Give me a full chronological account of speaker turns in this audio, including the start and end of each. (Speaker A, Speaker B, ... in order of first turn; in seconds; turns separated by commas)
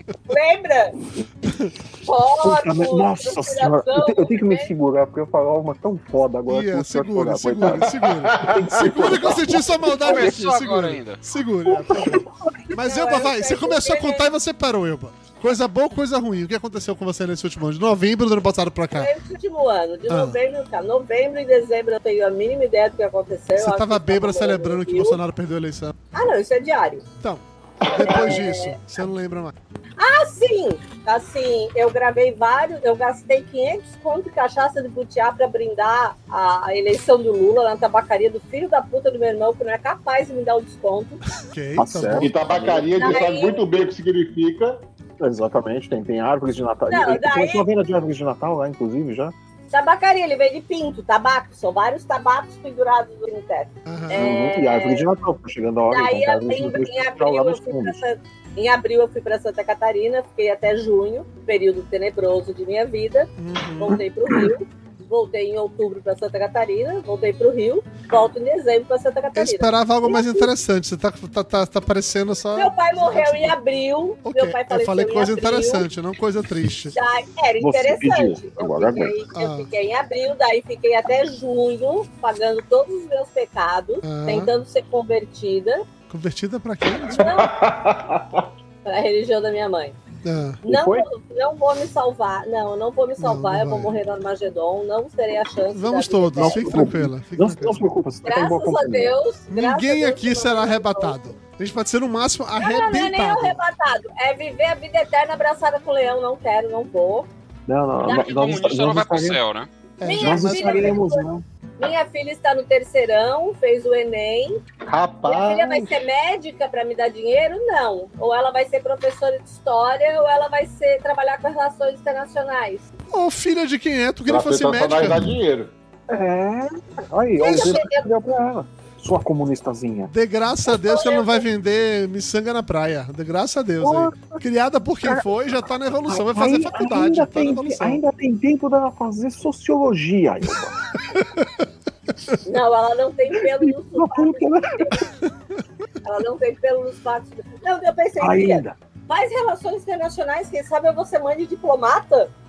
Speaker A: 0.3-0.9, Speaker A: 2.0-4.7, Speaker B: 2.4-10.3, Speaker C: 6.5-19.1, Speaker D: 8.3-8.6, Speaker E: 10.0-11.2, Speaker B: 11.7-12.7, Speaker A: 12.8-14.3, Speaker A: 18.9-25.2, Speaker C: 20.1-20.4, Speaker C: 23.6-25.9, Speaker A: 26.1-27.1, Speaker C: 27.2-29.5, Speaker A: 27.9-28.8, Speaker A: 30.0-41.2, Speaker C: 41.4-42.3, Speaker B: 41.8-43.2, Speaker D: 42.2-44.8, Speaker A: 42.9-43.6, Speaker B: 45.2-49.3, Speaker A: 46.9-47.7, Speaker A: 49.7-55.0, Speaker C: 53.9-54.3, Speaker B: 54.1-58.0, Speaker A: 55.9-70.5, Speaker C: 63.4-64.0, Speaker C: 69.3-73.5, Speaker A: 72.5-75.9, Speaker C: 74.2-77.0, Speaker A: 76.9-85.9, Speaker B: 77.6-79.2, Speaker C: 79.3-79.7, Speaker C: 84.0-84.5, Speaker C: 86.1-87.3, Speaker A: 87.1-87.5, Speaker D: 87.1-88.5, Speaker A: 88.8-90.0, Speaker C: 90.2-90.6, Speaker A: 90.6-96.8, Speaker B: 90.7-91.1, Speaker C: 93.2-93.9, Speaker C: 95.7-97.8, Speaker B: 96.4-99.2, Speaker A: 98.2-101.2, Speaker C: 99.5-103.6, Speaker A: 102.6-107.3, Speaker B: 107.7-109.4, Speaker E: 108.0-109.7, Speaker C: 110.0-111.0, Speaker A: 110.0-111.2, Speaker B: 110.2-111.4, Speaker A: 111.8-114.6, Speaker D: 114.8-116.0, Speaker A: 115.2-122.8, Speaker C: 123.1-125.3, Speaker D: 124.3-125.7, Speaker B: 126.1-130.1, Speaker A: 127.4-128.1, Speaker C: 127.5-127.7, Speaker C: 130.1-138.0, Speaker A: 130.7-131.4, Speaker B: 133.8-134.4, Speaker B: 136.1-140.8, Speaker C: 141.2-141.5, Speaker A: 142.4-145.1, Speaker B: 143.4-145.0, Speaker A: 146.0-152.3, Speaker B: 148.2-148.8